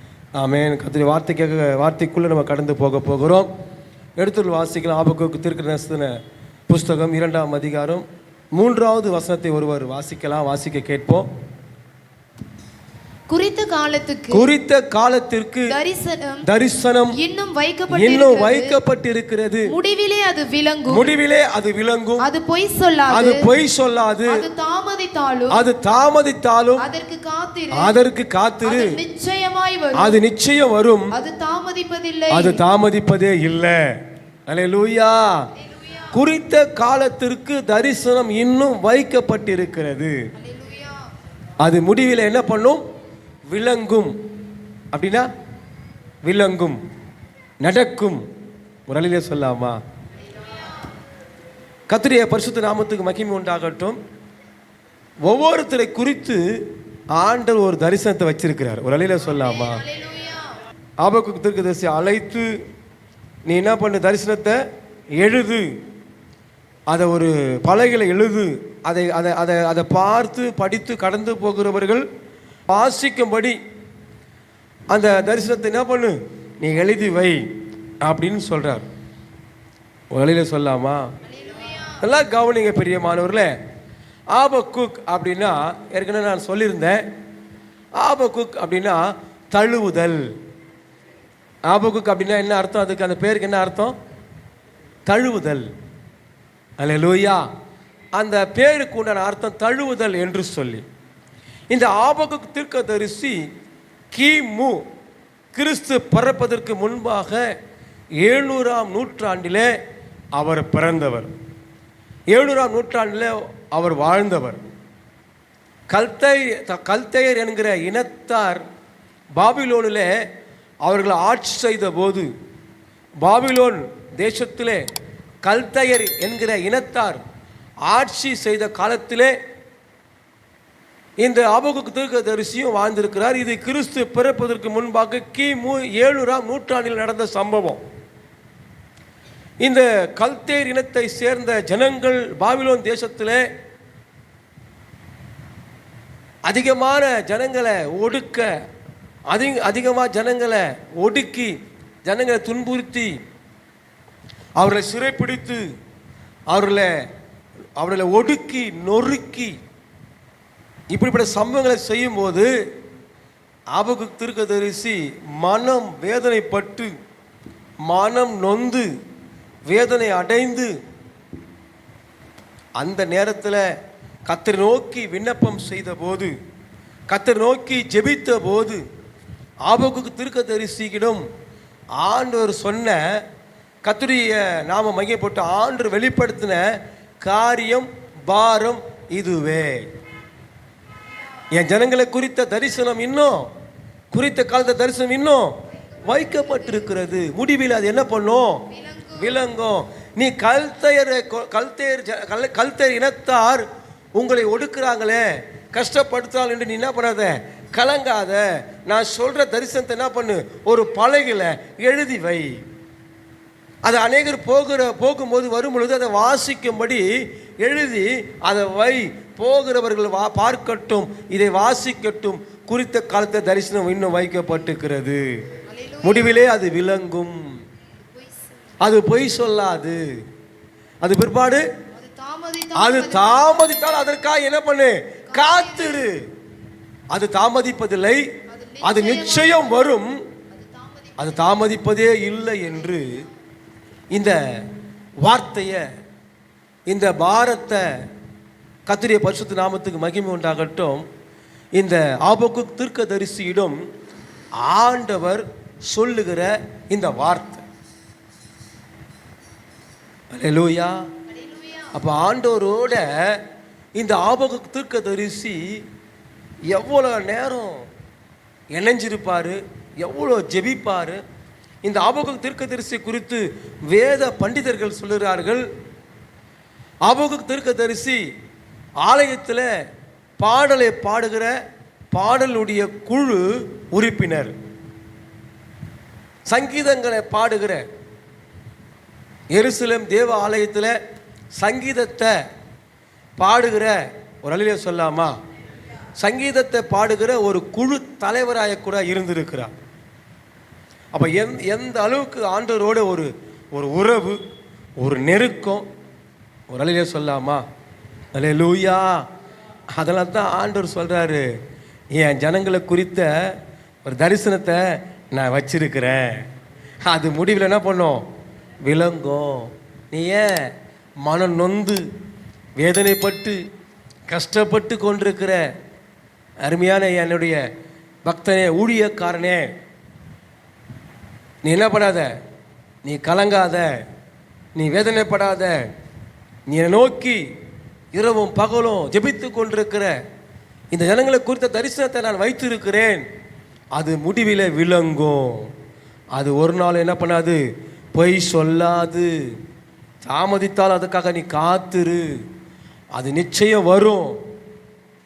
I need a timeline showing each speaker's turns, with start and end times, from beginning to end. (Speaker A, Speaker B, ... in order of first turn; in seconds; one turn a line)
Speaker A: 0.4-3.5
Speaker A: 4.2-6.2
Speaker A: 6.7-11.3
Speaker B: 13.3-14.5
Speaker A: 14.3-15.8
Speaker B: 15.7-16.5
Speaker A: 16.4-17.2
Speaker B: 17.1-18.8
Speaker A: 17.9-19.7
Speaker B: 19.7-21.0
Speaker A: 20.9-22.3
Speaker B: 22.2-23.5
Speaker A: 23.1-24.4
Speaker B: 24.3-25.6
Speaker A: 25.5-26.9
Speaker B: 26.8-27.9
Speaker A: 27.7-29.0
Speaker B: 28.6-30.2
Speaker A: 29.9-31.1
Speaker B: 31.1-32.6
Speaker A: 32.3-33.9
Speaker A: 34.5-35.5
Speaker B: 35.6-36.1
Speaker A: 36.1-40.2
Speaker B: 40.4-41.0
Speaker A: 41.6-42.8
Speaker A: 43.5-44.1
Speaker A: 44.9-45.3
Speaker A: 46.2-46.8
Speaker A: 47.6-48.2
Speaker A: 48.9-49.8
Speaker B: 50.2-50.9
Speaker A: 51.9-54.0
Speaker A: 55.2-56.6
Speaker A: 57.1-59.8
Speaker B: 59.3-60.6
Speaker A: 61.0-62.5
Speaker A: 63.5-64.6
Speaker A: 65.2-65.7
Speaker A: 66.9-72.0
Speaker A: 72.7-73.6
Speaker A: 74.9-77.4
Speaker A: 78.0-78.8
Speaker A: 80.1-81.0
Speaker B: 81.2-82.0
Speaker A: 82.0-83.5
Speaker A: 84.3-87.0
Speaker A: 88.0-90.3
Speaker A: 91.7-94.0
Speaker A: 95.1-95.7
Speaker A: 96.8-97.4
Speaker A: 98.2-100.8
Speaker A: 101.7-103.4
Speaker A: 104.1-104.8
Speaker A: 105.5-107.5
Speaker A: 108.2-109.7
Speaker A: 110.3-111.3
Speaker A: 112.3-114.6
Speaker A: 115.9-118.6
Speaker A: 119.4-120.1
Speaker A: 120.8-122.3
Speaker A: 123.2-124.8
Speaker A: 125.4-127.2
Speaker A: 127.9-129.3
Speaker A: 131.2-137.8
Speaker A: 139.6-143.4
Speaker A: 146.5-148.5
Speaker A: 149.3-151.5
Speaker A: 152.0-153.1
Speaker A: 154.6-155.6
Speaker A: 156.5-156.9
Speaker A: 157.8-159.5
Speaker A: 160.9-162.5
Speaker A: 163.7-166.9
Speaker A: 167.9-168.9
Speaker A: 169.7-170.7
Speaker A: 172.8-173.6
Speaker A: 174.3-176.3
Speaker A: 177.1-178.8
Speaker A: 179.7-181.2
Speaker A: 182.0-183.2
Speaker A: 183.8-186.7
Speaker A: 187.2-189.8
Speaker A: 191.5-193.5
Speaker A: 194.1-203.6
Speaker B: 198.7-199.3
Speaker A: 204.2-212.6
Speaker A: 213.8-217.1
Speaker A: 217.6-225.4
Speaker B: 225.7-226.4
Speaker A: 226.0-227.6
Speaker B: 228.1-228.6
Speaker A: 228.8-230.0
Speaker A: 231.0-231.7
Speaker B: 231.9-234.0
Speaker A: 232.7-236.3
Speaker B: 235.3-236.0
Speaker A: 237.1-238.2
Speaker B: 238.5-239.7
Speaker A: 238.8-240.2
Speaker B: 240.5-241.6
Speaker A: 241.2-243.2
Speaker A: 244.1-244.6
Speaker A: 245.2-245.8
Speaker A: 246.9-247.9
Speaker A: 248.9-251.0
Speaker A: 251.8-253.8
Speaker A: 254.6-257.6
Speaker A: 260.3-261.0
Speaker B: 261.3-262.0
Speaker A: 261.9-263.4
Speaker A: 263.9-265.8
Speaker A: 266.7-267.9
Speaker A: 268.7-271.2
Speaker A: 271.8-275.7
Speaker A: 277.1-278.2
Speaker A: 279.0-279.7
Speaker A: 280.4-281.5
Speaker A: 282.1-284.5
Speaker A: 286.5-287.8
Speaker A: 289.5-290.9
Speaker A: 291.6-292.3
Speaker A: 293.4-295.3
Speaker A: 296.2-299.7
Speaker A: 301.1-304.4
Speaker A: 305.0-305.9
Speaker A: 306.7-307.6
Speaker A: 308.3-309.2
Speaker A: 309.9-311.5
Speaker A: 312.1-316.5
Speaker A: 317.0-318.2
Speaker A: 318.8-320.7
Speaker A: 321.2-322.0
Speaker A: 322.8-323.6
Speaker A: 324.3-325.6
Speaker A: 326.6-327.6
Speaker A: 328.2-329.7
Speaker A: 331.6-332.3
Speaker A: 333.0-334.0
Speaker A: 334.7-335.9
Speaker A: 336.7-337.4
Speaker A: 338.1-340.1
Speaker A: 340.9-343.2
Speaker A: 343.9-345.7
Speaker A: 346.3-347.6
Speaker A: 348.1-349.3
Speaker A: 350.2-352.3
Speaker A: 353.1-354.4